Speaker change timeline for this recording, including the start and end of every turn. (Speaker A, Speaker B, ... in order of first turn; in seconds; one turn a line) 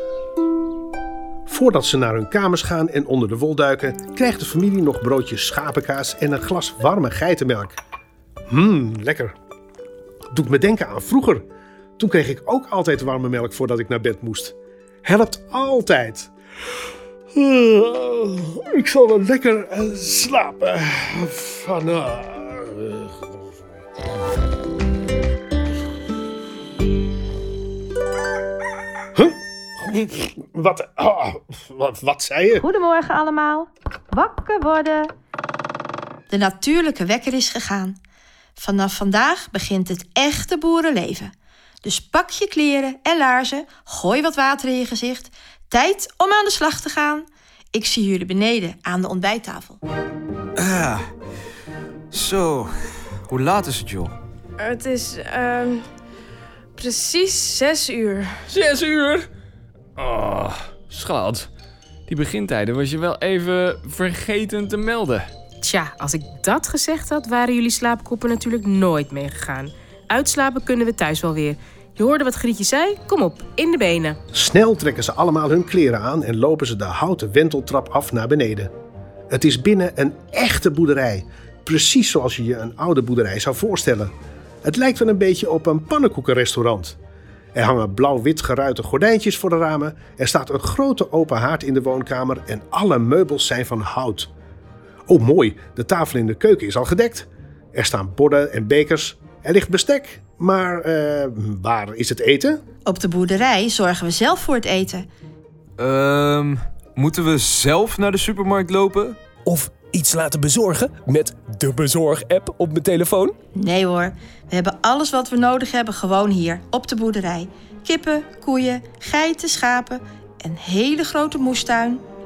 Speaker A: 1.5-7.8
Speaker A: 8.5-9.3
Speaker A: 10.3-11.4
Speaker A: 12.0-16.3
Speaker A: 17.3-23.3
Speaker A: 29.2-32.6
Speaker B: 32.5-35.1
Speaker B: 36.3-38.0
Speaker B: 38.6-41.3
Speaker B: 41.8-49.8
Speaker C: 50.6-51.1
Speaker C: 52.1-54.2
Speaker D: 54.6-55.9
Speaker D: 56.8-58.4
Speaker E: 58.5-59.3
Speaker E: 60.0-61.5
Speaker E: 62.1-65.3
Speaker F: 65.6-74.2
Speaker A: 74.3-78.7
Speaker A: 79.3-84.1
Speaker A: 84.7-87.0
Speaker A: 87.5-94.3
Speaker A: 95.1-102.6
Speaker B: 102.9-105.1
Speaker C: 105.8-109.2
Speaker E: 109.5-112.8
Speaker G: 109.7-113.3
Speaker B: 113.6-122.0